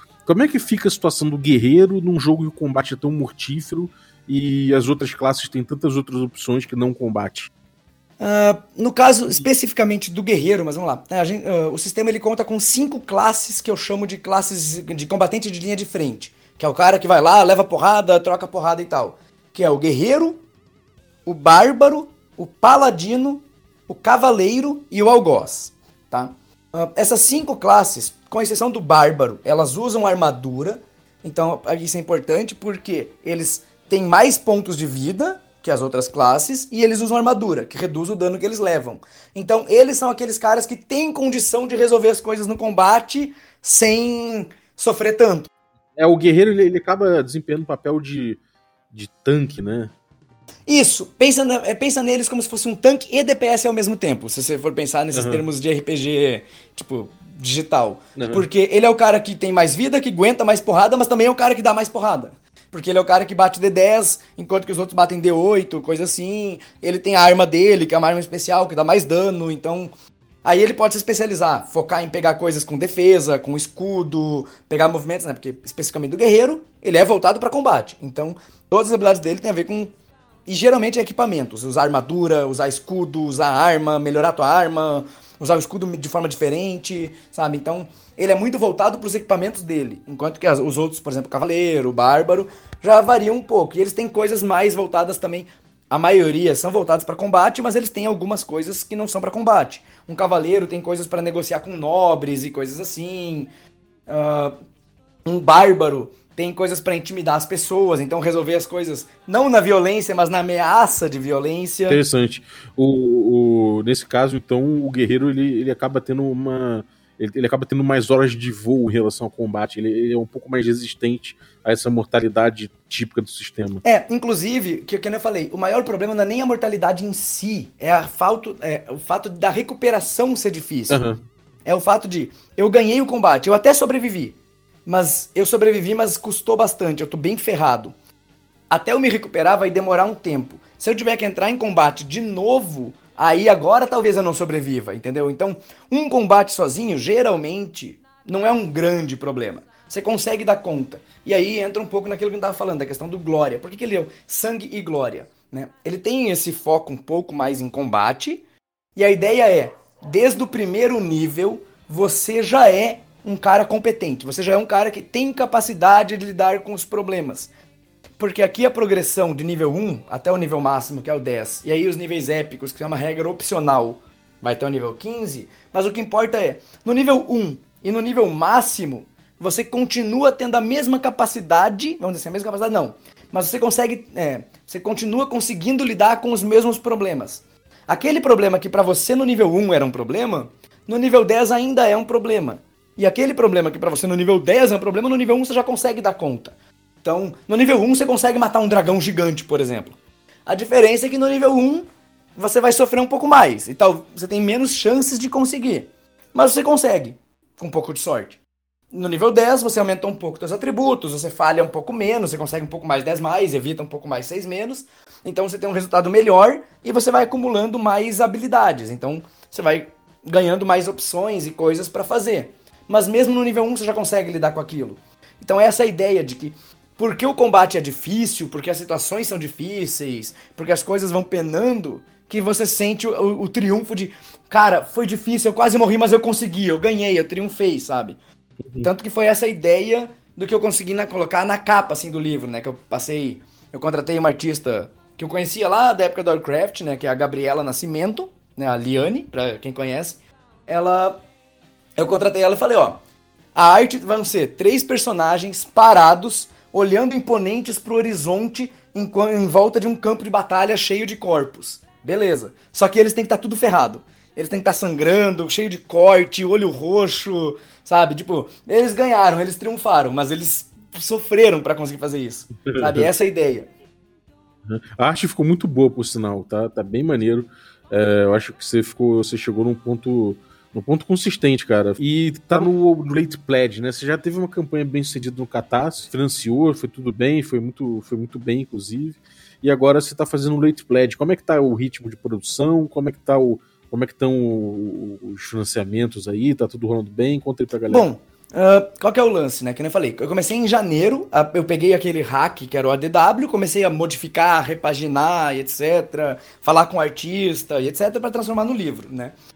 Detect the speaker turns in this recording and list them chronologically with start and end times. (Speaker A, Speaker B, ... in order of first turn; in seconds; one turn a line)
Speaker A: 0.3-7.5
Speaker B: 8.2-20.4
Speaker B: 21.3-45.5
Speaker A: 46.0-48.4
Speaker A: 48.9-49.9
Speaker B: 50.7-69.9
Speaker A: 55.1-55.4
Speaker A: 58.2-58.5
Speaker B: 70.4-79.9
Speaker B: 80.5-103.5
Speaker B: 104.1-104.5
Speaker B: 105.2-112.0
Speaker A: 111.9-123.8
Speaker B: 123.8-131.0
Speaker A: 130.9-131.2
Speaker B: 131.7-137.9
Speaker B: 138.7-158.4
Speaker B: 159.0-167.5
Speaker B: 168.2-201.8
Speaker B: 202.4-208.4
Speaker B: 208.9-238.2
Speaker B: 238.8-251.2
Speaker B: 252.0-253.0
Speaker B: 253.6-273.7
Speaker A: 272.7-273.1
Speaker A: 274.7-298.1
Speaker B: 297.9-309.4